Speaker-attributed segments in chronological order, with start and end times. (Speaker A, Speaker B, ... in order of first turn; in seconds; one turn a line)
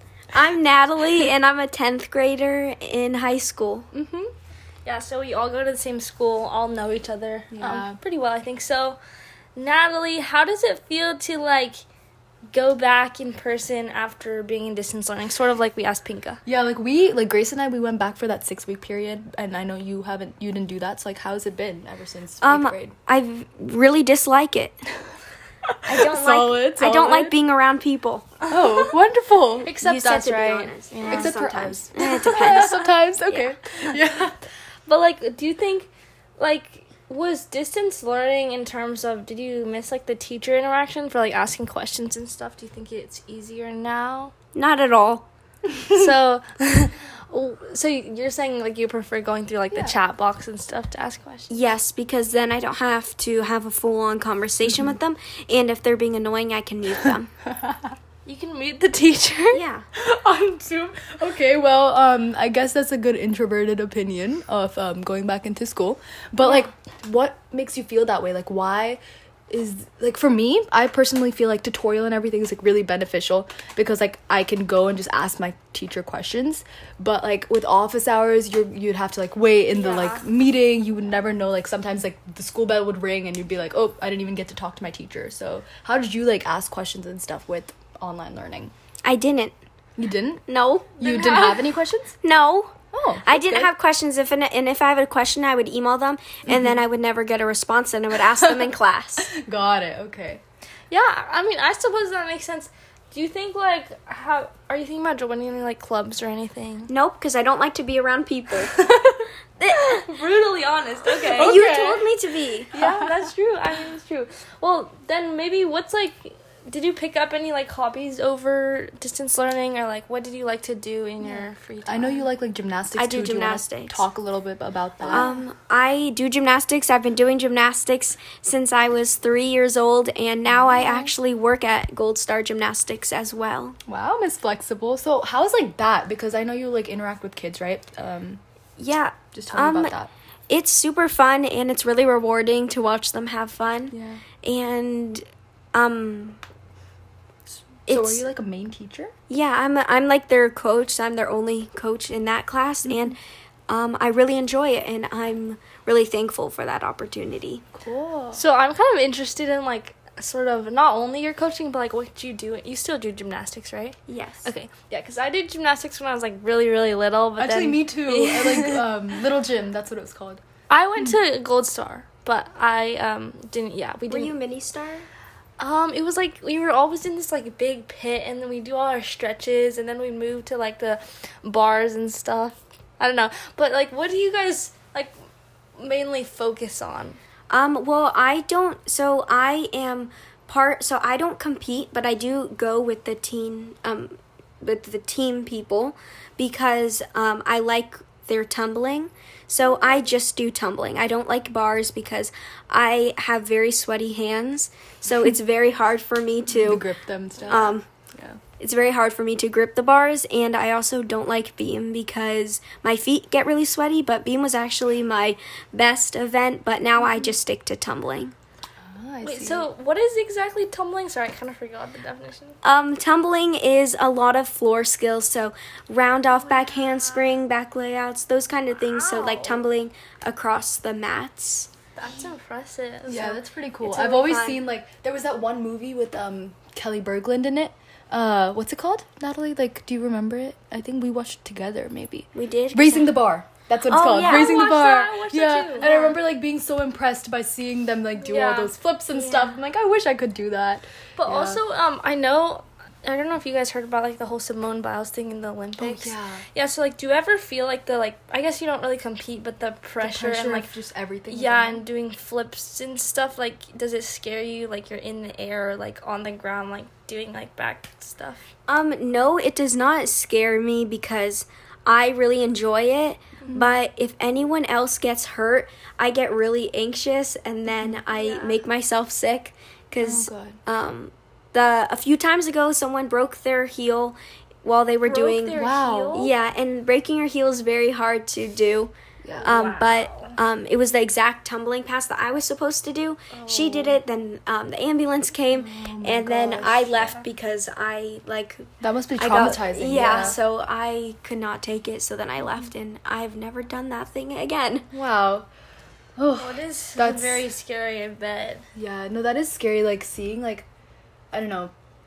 Speaker A: 0.3-3.9
Speaker B: 3.9-4.3
Speaker C: 4.9-9.0
Speaker B: 7.5-8.0
Speaker C: 9.6-11.8
Speaker C: 12.5-16.4
Speaker B: 16.4-22.9
Speaker A: 22.4-24.8
Speaker B: 25.8-27.4
Speaker A: 25.9-28.3
Speaker B: 28.4-30.3
Speaker C: 29.7-31.4
Speaker A: 29.8-33.6
Speaker B: 31.0-34.4
Speaker C: 34.9-44.3
Speaker A: 44.5-45.3
Speaker C: 45.9-51.5
Speaker A: 51.5-57.3
Speaker B: 57.5-57.9
Speaker C: 58.2-61.0
Speaker A: 59.5-59.9
Speaker B: 60.9-88.7
Speaker C: 79.7-80.2
Speaker A: 89.0-89.5
Speaker B: 90.0-90.4
Speaker A: 90.5-91.0
Speaker B: 91.0-92.2
Speaker C: 91.0-91.7
Speaker A: 92.2-92.7
Speaker B: 92.9-93.7
Speaker A: 93.2-99.3
Speaker B: 96.5-96.8
Speaker B: 98.4-98.7
Speaker B: 99.3-100.4
Speaker C: 100.9-106.9
Speaker A: 106.9-108.7
Speaker C: 108.8-109.1
Speaker A: 109.6-110.1
Speaker C: 109.7-112.1
Speaker A: 111.3-112.8
Speaker B: 111.5-111.9
Speaker C: 112.7-122.3
Speaker B: 112.8-113.2
Speaker B: 121.8-125.3
Speaker A: 123.0-124.0
Speaker A: 125.1-133.8
Speaker B: 130.5-131.1
Speaker B: 133.9-138.4
Speaker A: 138.8-139.9
Speaker B: 139.3-140.1
Speaker A: 140.5-145.2
Speaker B: 143.9-144.2
Speaker A: 145.7-146.4
Speaker A: 147.9-148.2
Speaker B: 147.9-149.1
Speaker A: 149.3-153.2
Speaker A: 153.7-157.6
Speaker B: 157.7-158.4
Speaker C: 158.3-168.9
Speaker A: 164.1-164.5
Speaker B: 167.4-170.4
Speaker C: 170.7-174.3
Speaker A: 174.1-175.1
Speaker C: 175.6-185.1
Speaker C: 185.8-187.2
Speaker A: 187.5-206.9
Speaker B: 206.5-208.4
Speaker A: 207.5-207.8
Speaker A: 208.6-218.3
Speaker B: 218.8-219.7
Speaker C: 219.2-222.6
Speaker A: 222.6-231.7
Speaker C: 226.3-227.4
Speaker C: 228.8-229.7
Speaker C: 231.9-233.4
Speaker B: 233.1-251.6
Speaker A: 233.8-234.6
Speaker A: 242.3-243.3
Speaker A: 243.9-244.7
Speaker C: 244.2-245.9
Speaker A: 245.8-246.2
Speaker C: 248.2-248.8
Speaker A: 249.1-249.6
Speaker C: 251.2-260.8
Speaker B: 255.8-256.4
Speaker B: 260.0-261.8
Speaker C: 261.3-268.5
Speaker A: 268.7-304.9
Speaker B: 273.4-273.7
Speaker B: 277.7-278.0
Speaker C: 278.1-278.6
Speaker B: 280.0-280.6
Speaker C: 285.0-286.3
Speaker B: 285.5-286.3
Speaker B: 289.2-289.7
Speaker C: 289.4-290.4
Speaker C: 293.3-294.0
Speaker B: 295.5-297.1
Speaker C: 296.9-297.2
Speaker B: 298.8-300.4
Speaker B: 304.9-305.5
Speaker B: 306.2-307.5
Speaker C: 306.4-308.6
Speaker B: 308.8-310.7
Speaker B: 311.3-311.7